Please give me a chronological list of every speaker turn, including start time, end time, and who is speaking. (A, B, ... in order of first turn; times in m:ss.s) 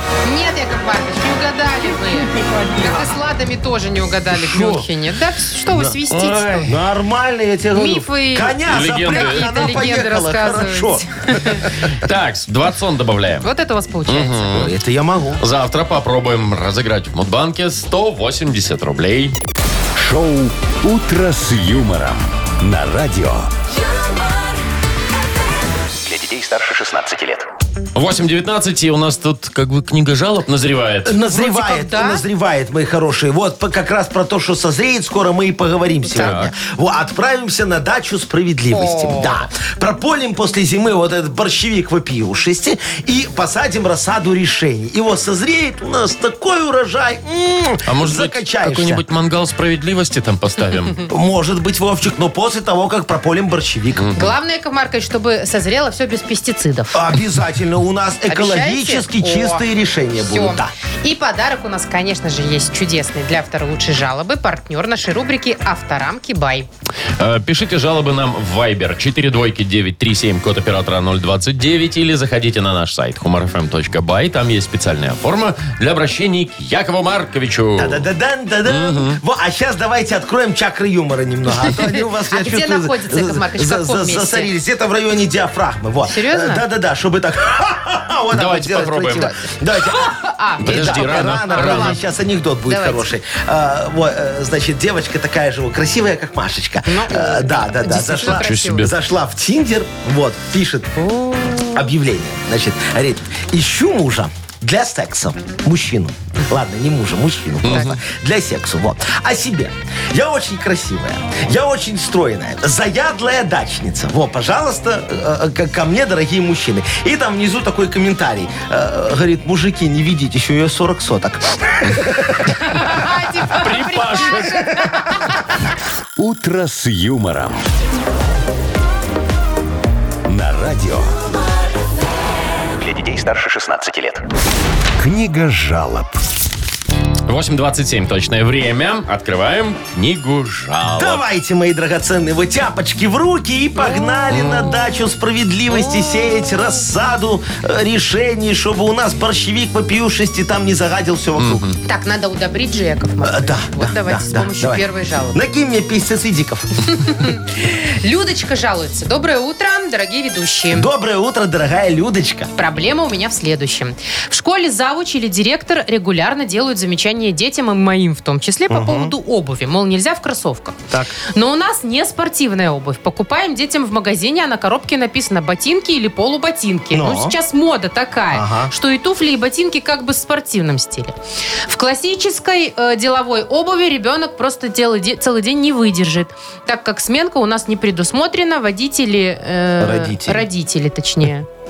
0:00.2-0:06.7 A
0:04.3-0:04.8 B
0:05.7-0:06.0 B
0:06.1-0:06.7 C
0:06.7-0:11.8 B
0:07.7-0:11.6 A
0:08.7-0:09.8 C
0:11.9-0:13.5 C
0:13.4-0:14.7 A
0:14.1-0:14.7 C
0:14.5-0:15.4 B
0:15.4-0:19.3 C
0:19.9-0:23.5 D
0:26.0-0:27.4 E
0:27.9-0:31.1 C
0:31.0-0:49.0 B
0:31.2-0:32.2 A
0:36.1-0:36.4 A
0:36.1-0:36.5 C
0:38.7-0:39.4 A
0:47.9-0:51.0 C
0:51.1-0:54.3 B
0:54.0-0:54.2 C
0:54.1-0:57.1 A
0:56.9-1:00.7 B
0:58.3-0:59.6 A
1:00.2-1:06.7 A
1:07.2-1:18.0 C
1:17.8-1:40.9 B
1:18.6-1:19.2 C
1:22.3-1:24.5 A
1:26.0-1:26.6 A
1:28.3-1:29.3 C
1:29.1-1:32.0 A
1:30.6-1:32.0 C
1:32.7-1:33.1 A
1:36.9-1:38.9 A
1:38.2-1:38.9 C
1:41.0-1:41.8 A
1:41.7-2:02.6 B
1:47.6-1:47.9 C
1:47.6-1:48.0 A
2:02.5-2:05.4 A
2:03.5-2:04.7 C
2:06.2-2:07.6 D
2:10.2-2:11.2 D
2:12.8-2:14.2 E
2:15.0-2:16.2 D
2:17.3-2:21.2 C
2:20.9-2:31.6 B
2:24.3-2:24.8 C
2:31.4-2:31.8 C
2:31.8-2:35.4 A
2:33.2-2:37.0 B
2:36.9-2:40.9 A
2:40.7-2:42.5 B
2:42.6-3:01.1 A
2:48.7-2:49.1 B
2:50.9-2:51.2 B
2:56.9-2:57.4 B
2:58.3-2:58.7 B
3:01.7-3:11.5 A
3:09.8-3:10.4 B